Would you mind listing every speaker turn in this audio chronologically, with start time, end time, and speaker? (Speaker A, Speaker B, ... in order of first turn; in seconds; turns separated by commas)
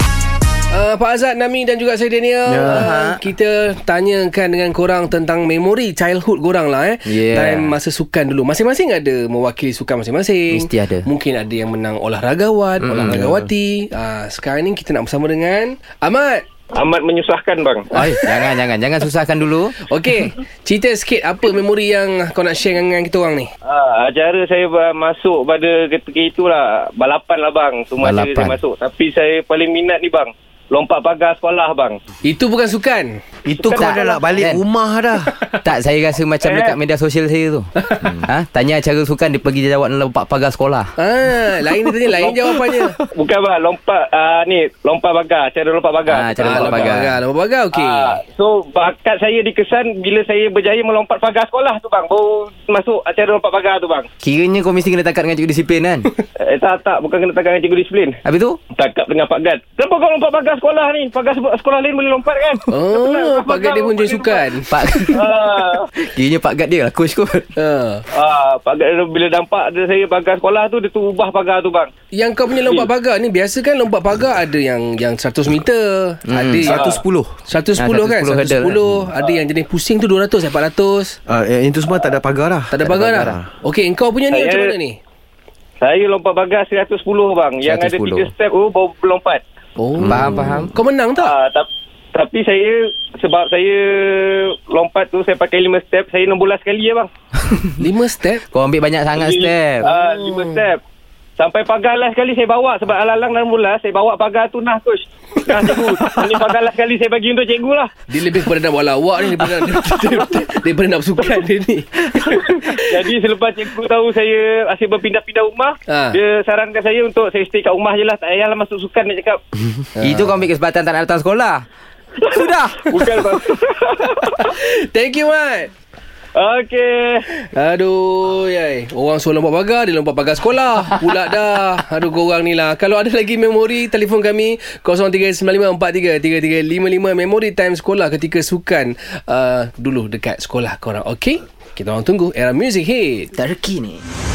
Speaker A: 0.7-16.4, Speaker B: 2.5-2.9, Speaker C: 2.7-3.2, Speaker C: 7.1-7.7, Speaker C: 10.5-11.1, Speaker C: 12.8-13.3, Speaker B: 13.0-13.3, Speaker D: 16.8-17.9, Speaker C: 17.9-19.8, Speaker A: 18.0-18.6, Speaker A: 19.9-23.5, Speaker D: 23.6-32.0, Speaker C: 28.0-28.6, Speaker A: 32.2-33.2, Speaker B: 33.5-35.3, Speaker D: 33.6-34.2, Speaker C: 33.6-34.6, Speaker C: 35.6-40.9, Speaker D: 36.4-36.8, Speaker A: 37.8-38.1, Speaker A: 41.0-43.0, Speaker D: 43.1-47.1, Speaker C: 46.1-47.2, Speaker A: 46.4-48.2, Speaker D: 47.7-54.1, Speaker C: 54.2-56.1, Speaker D: 56.4-58.2, Speaker C: 58.2-58.6, Speaker D: 58.8-64.5, Speaker A: 62.7-65.2, Speaker C: 64.7-65.2, Speaker D: 65.1-65.9, Speaker C: 66.0-67.5, Speaker A: 67.6-68.0, Speaker D: 68.1-71.9, Speaker A: 72.1-81.2, Speaker D: 72.6-72.9, Speaker C: 76.3-78.8, Speaker D: 76.7-77.0, Speaker B: 81.3-83.5, Speaker A: 82.7-85.0, Speaker C: 82.9-83.3, Speaker D: 84.3-84.7, Speaker D: 85.8-89.4, Speaker C: 87.6-88.3, Speaker A: 89.8-91.3, Speaker B: 90.0-90.7, Speaker C: 90.1-90.7, Speaker D: 91.2-97.1, Speaker C: 97.5-97.8, Speaker A: 97.8-98.4, Speaker C: 98.5-99.8, Speaker D: 99.2-100.8, Speaker A: 99.8-100.6, Speaker D: 101.4-107.9, Speaker A: 108.1-112.8, Speaker D: 112.3-119.4, Speaker A: 115.9-116.2, Speaker A: 120.0-120.4, Speaker C: 120.0-121.7, Speaker C: 122.3-122.9, Speaker D: 122.3-124.5, Speaker A: 124.4-125.7, Speaker D: 126.3-127.2, Speaker A: 127.4-143.3, Speaker C: 143.3-144.0